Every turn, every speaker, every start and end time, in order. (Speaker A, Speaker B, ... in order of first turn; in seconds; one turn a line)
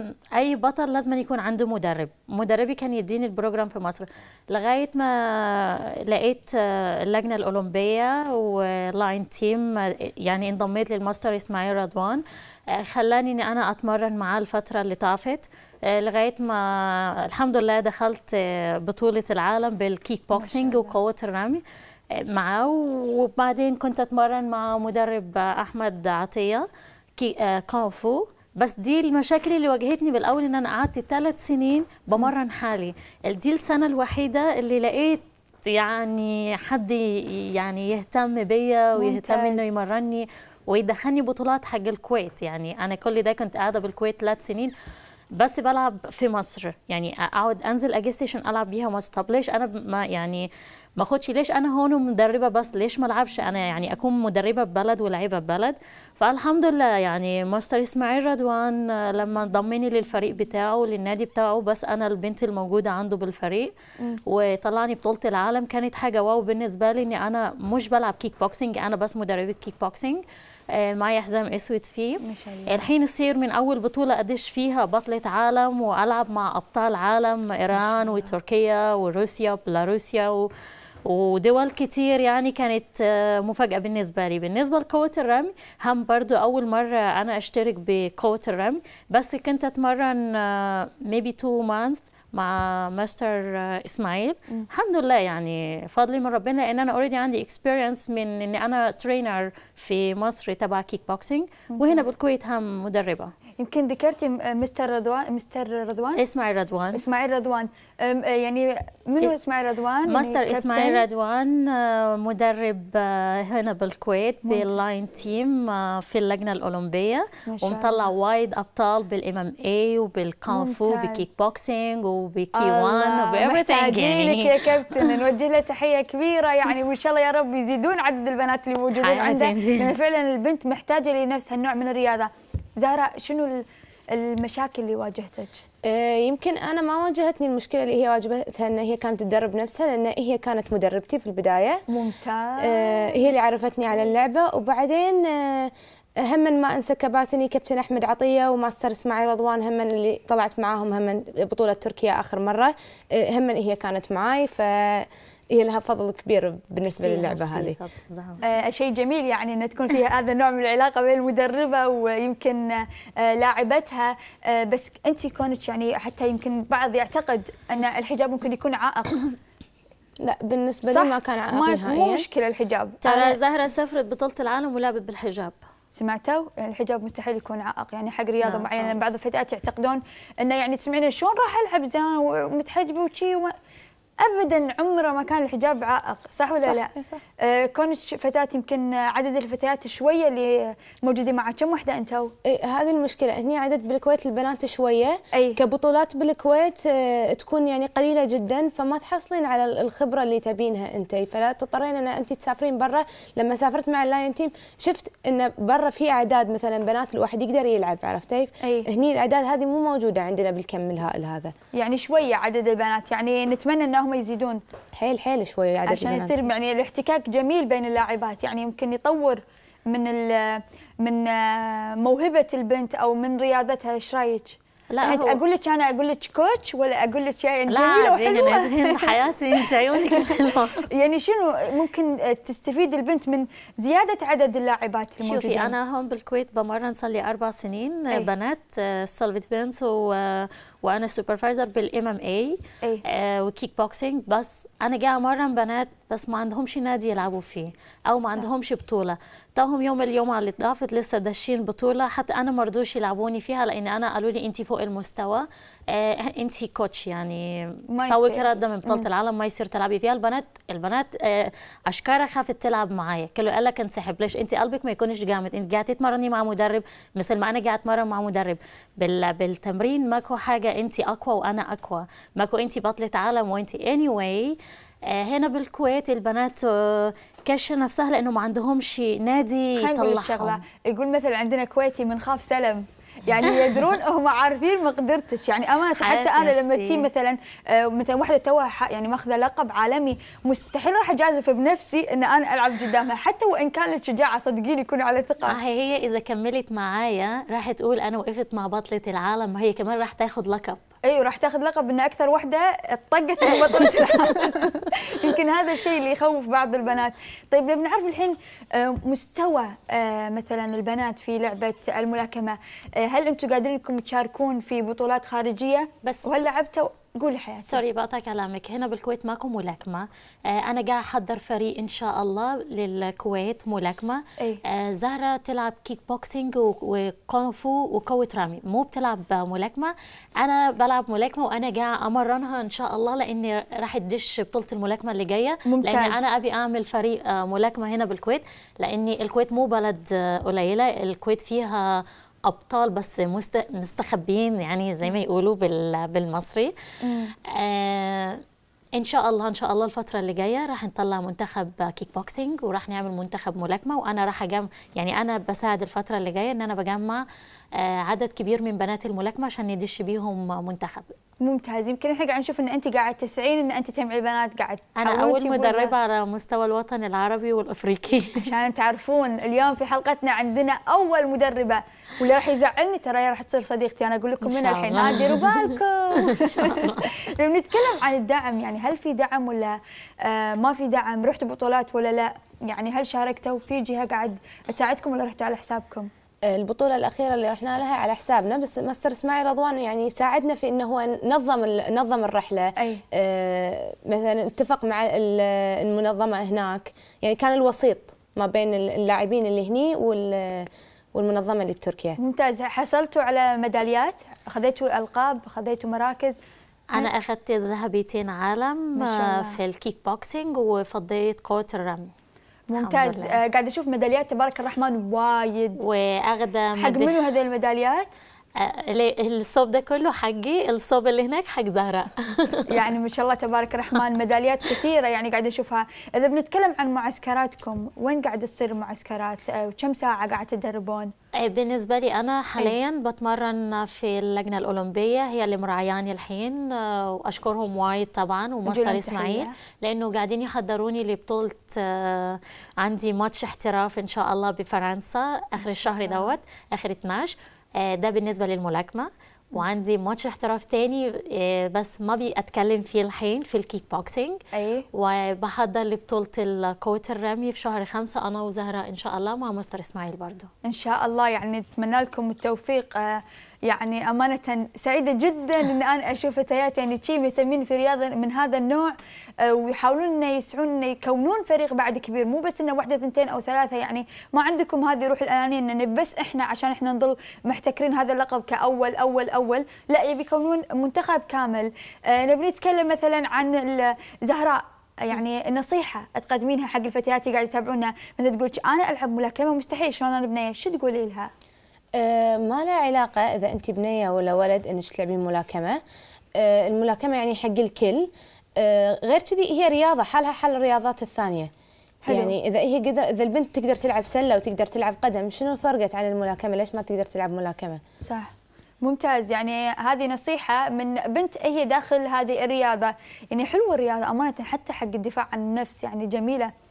Speaker A: 0.3-26.6
Speaker B: 20.3-20.9
Speaker A: 27.2-44.7
Speaker B: 39.0-39.6
Speaker A: 45.3-63.7
Speaker A: 64.3-80.5
Speaker B: 72.2-72.8
Speaker B: 77.7-78.3
Speaker A: 81.0-103.3
Speaker B: 101.7-102.1
Speaker B: 103.6-106.2
Speaker A: 106.1-107.0
Speaker B: 106.9-111.0
Speaker A: 110.0-125.2
Speaker B: 114.5-114.8
Speaker B: 117.5-118.1
Speaker B: 120.5-121.3
Speaker B: 122.5-135.6
Speaker A: 128.9-129.9
Speaker C: 135.8-141.8
Speaker B: 141.9-143.2
Speaker C: 142.6-157.8
Speaker A: 156.8-158.4
Speaker B: 158.4-169.3
Speaker C: 170.2-172.2
Speaker B: 170.9-173.4
Speaker A: 173.0-175.6
Speaker B: 175.9-183.5
Speaker A: 178.4-179.1
Speaker B: 184.2-192.3
Speaker C: 186.6-187.2
Speaker C: 192.5-211.5
Speaker B: 195.3-195.6
Speaker B: 208.6-208.9
Speaker B: 211.7-214.6
Speaker C: 214.9-216.5
Speaker B: 215.8-235.7
Speaker A: 224.9-225.4
Speaker A: 227.7-230.9
Speaker A: 235.2-274.5
Speaker B: 257.9-259.1
Speaker A: 275.1-280.6
Speaker B: 279.8-295.6
Speaker A: 286.0-287.1
Speaker A: 295.5-300.8
Speaker B: 301.1-317.8
Speaker A: 316.0-316.8
Speaker A: 317.4-346.7
Speaker B: 335.7-336.3
Speaker B: 347.0-347.3
Speaker A: 347.3-348.4
Speaker A: 348.9-357.2
Speaker A: 357.7-361.1
Speaker B: 361.4-365.9
Speaker A: 365.0-368.5
Speaker B: 368.4-386.1
Speaker A: 374.4-377.2
Speaker C: 386.5-402.2
Speaker B: 392.8-393.0
Speaker B: 402.2-406.4
Speaker A: 406.9-412.1
Speaker B: 408.9-409.6
Speaker B: 412.7-415.8
Speaker A: 412.8-413.4
Speaker A: 415.8-417.2
Speaker B: 416.8-418.1
Speaker A: 418.6-422.8
Speaker B: 422.7-431.1
Speaker A: 431.4-454.4
Speaker B: 438.6-439.5
Speaker B: 445.6-446.3
Speaker B: 454.5-454.9
Speaker A: 454.9-460.5
Speaker B: 460.6-491.3
Speaker C: 491.9-495.8
Speaker C: 496.4-501.5
Speaker B: 502.0-502.3
Speaker C: 502.1-507.8
Speaker B: 508.0-508.3
Speaker B: 508.8-516.5